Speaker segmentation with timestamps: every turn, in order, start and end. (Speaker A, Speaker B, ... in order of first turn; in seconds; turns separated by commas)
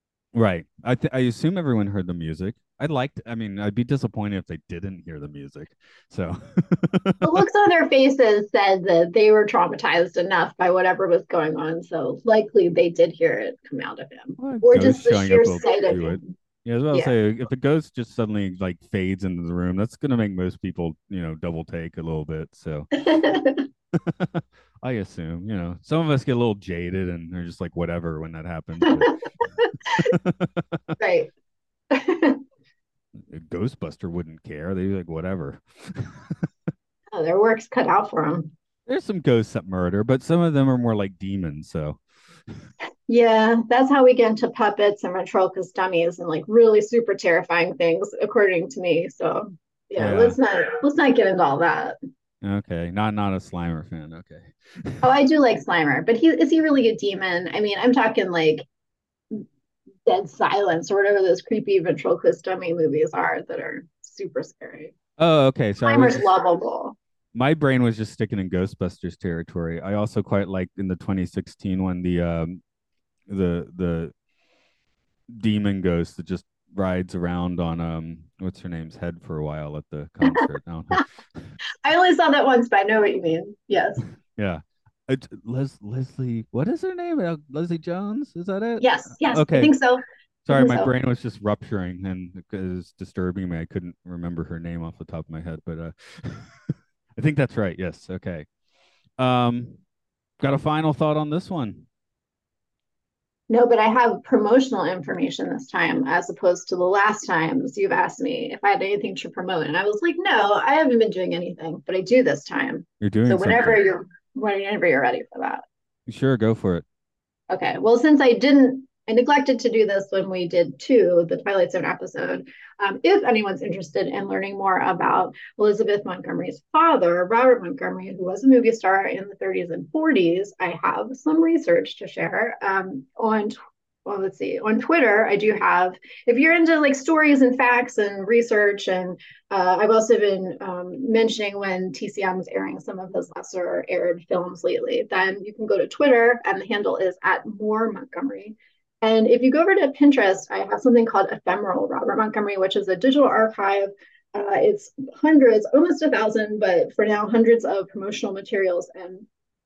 Speaker A: 0.3-7.4, Speaker B: 7.2-16.3, Speaker A: 14.4-23.0, Speaker B: 22.9-23.6, Speaker A: 23.9-29.2, Speaker B: 29.6-30.1, Speaker A: 30.0-30.9, Speaker B: 31.0-31.3, Speaker B: 31.9-32.4, Speaker A: 33.2-36.5, Speaker B: 37.1-38.5, Speaker A: 38.9-42.0, Speaker B: 43.1-52.0, Speaker A: 50.0-50.4, Speaker A: 52.4-55.1, Speaker B: 55.0-58.6, Speaker B: 60.1-64.9, Speaker A: 65.2-66.2, Speaker B: 65.8-67.0, Speaker A: 67.3-72.6, Speaker A: 73.3-74.1, Speaker A: 75.3-81.5, Speaker B: 81.8-84.0, Speaker A: 84.3-89.7, Speaker B: 88.8-90.9, Speaker A: 90.4-98.5, Speaker A: 99.2-99.8, Speaker A: 100.4-101.8, Speaker B: 103.5-115.6, Speaker A: 113.0-113.8, Speaker A: 116.1-116.8, Speaker B: 117.5-159.2